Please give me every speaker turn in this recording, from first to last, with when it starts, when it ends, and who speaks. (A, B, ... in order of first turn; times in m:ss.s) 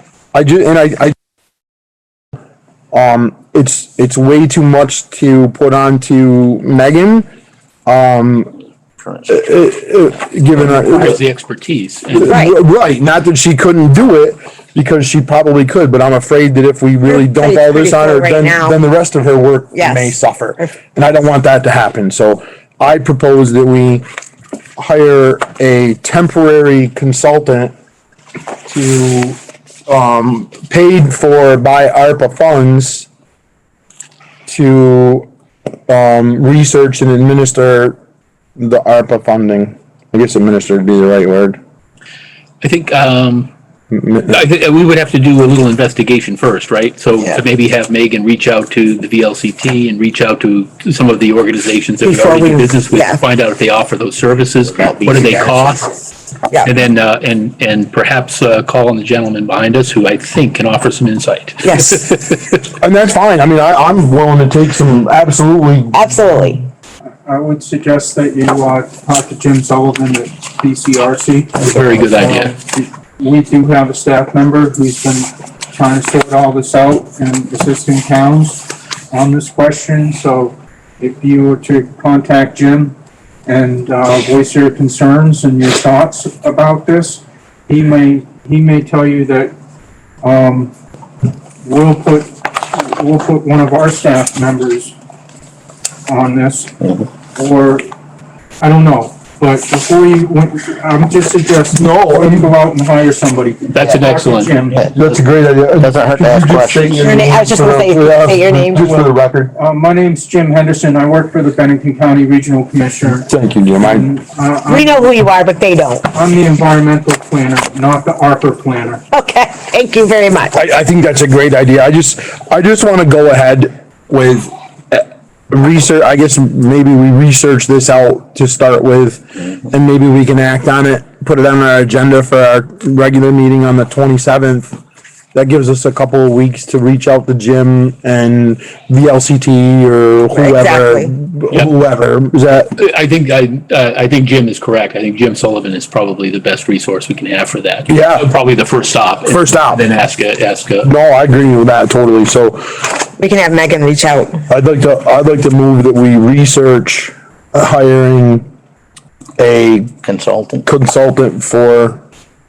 0:00.3-0:01.1 A
0:02.9-0:07.3 A
0:07.9-0:08.5 A
0:09.3-0:11.2 A
0:10.5-0:12.4 B
0:12.1-0:24.0 A
0:12.2-0:12.5 C
0:17.1-0:18.8 C
0:19.7-0:20.7 C
0:24.8-0:27.7 A
0:28.7-0:33.1 A
0:34.5-0:35.3 A
0:35.9-0:38.0 A
0:38.6-0:41.6 A
0:42.6-0:43.5 B
0:43.9-0:44.4 A
0:44.3-0:55.9 B
0:52.0-0:53.2 C
0:54.8-0:55.7 D
0:56.6-1:02.6 B
1:01.6-1:02.0 C
1:02.8-1:06.1 A
1:05.9-1:06.6 C
1:07.3-1:23.0 E
1:11.6-1:12.5 B
1:23.4-1:29.5 E
1:30.2-1:30.7 E
1:31.6-1:35.0 E
1:36.1-1:36.8 E
1:37.3-1:37.9 E
1:38.6-1:44.8 E
1:41.7-1:42.5 A
1:43.7-1:44.6 B
1:44.7-1:47.1 D
1:44.9-1:49.5 A
1:47.0-1:48.9 C
1:48.8-1:55.1 E
1:53.1-1:54.1 A
1:54.7-1:56.1 C
1:56.1-1:59.0 E
1:59.1-2:00.6 C
2:00.5-2:14.7 A
2:15.3-2:22.7 A
2:20.3-2:21.1 C
2:22.8-2:30.9 B
2:27.9-2:28.3 A
2:29.2-2:29.8 A
2:30.8-2:32.8 A
2:33.2-2:34.4 C
2:34.5-2:38.4 A
2:39.4-2:40.0 A
2:40.0-2:40.7 D
2:40.6-2:42.0 A